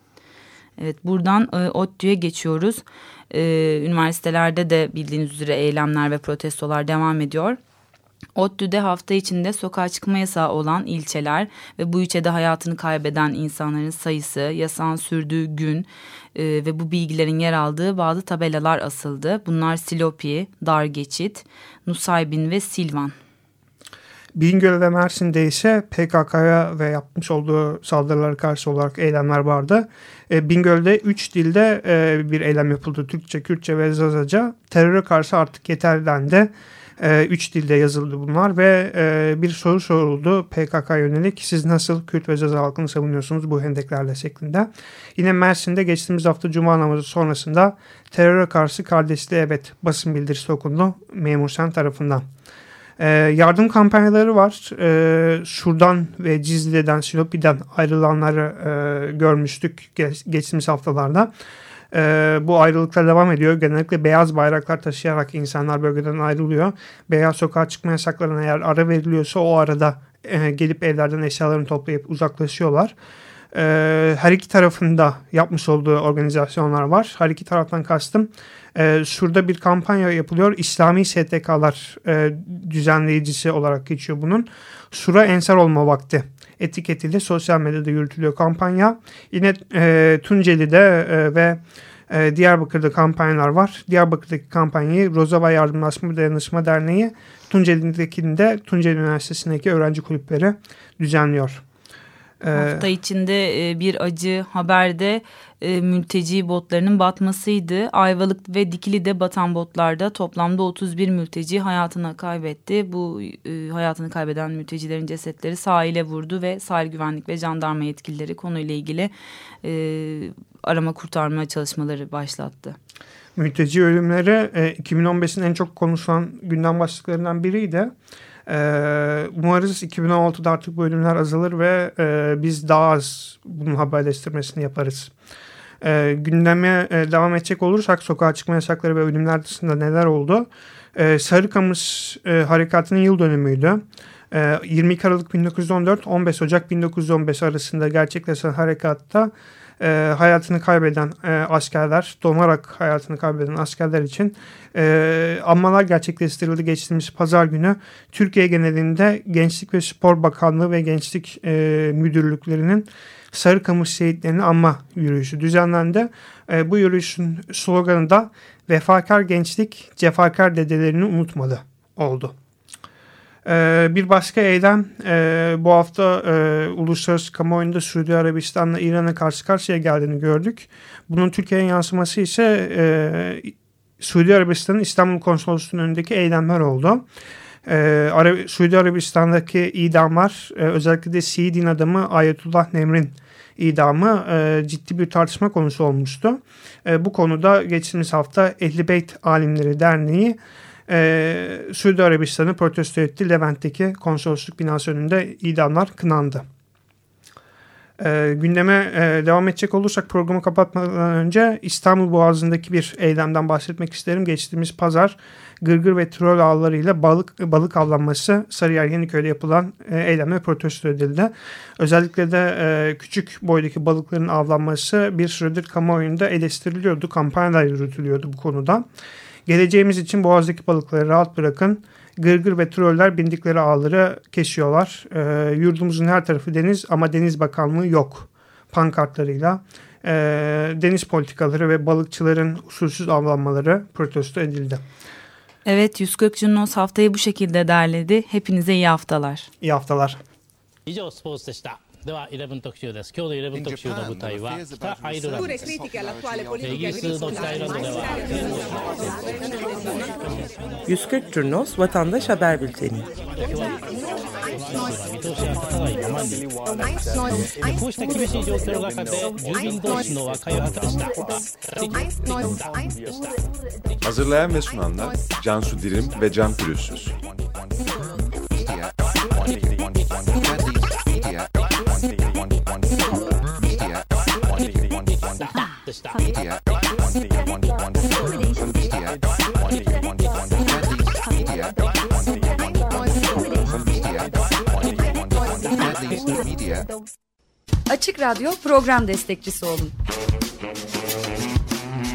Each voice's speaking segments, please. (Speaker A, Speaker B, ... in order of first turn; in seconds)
Speaker A: 0.8-7.6, 8.3-23.1, 102.5-119.1, 119.6-122.8, 245.7-249.5
Speaker B: 24.3-52.2, 53.0-61.3, 61.9-72.9, 73.5-101.6, 102.4-102.9, 123.3-127.9, 128.5-135.1, 135.8-172.3, 173.4-187.0, 187.7-200.4, 200.9-206.4, 208.0-228.8, 229.4-244.8, 249.6-250.2
Speaker C: 250.8-255.6, 256.6-259.2, 263.4-263.8, 264.5-266.4, 267.6-272.6, 285.4-286.3
Speaker D: 260.9-263.1
Speaker E: 274.0-277.1
Speaker F: 297.9-299.9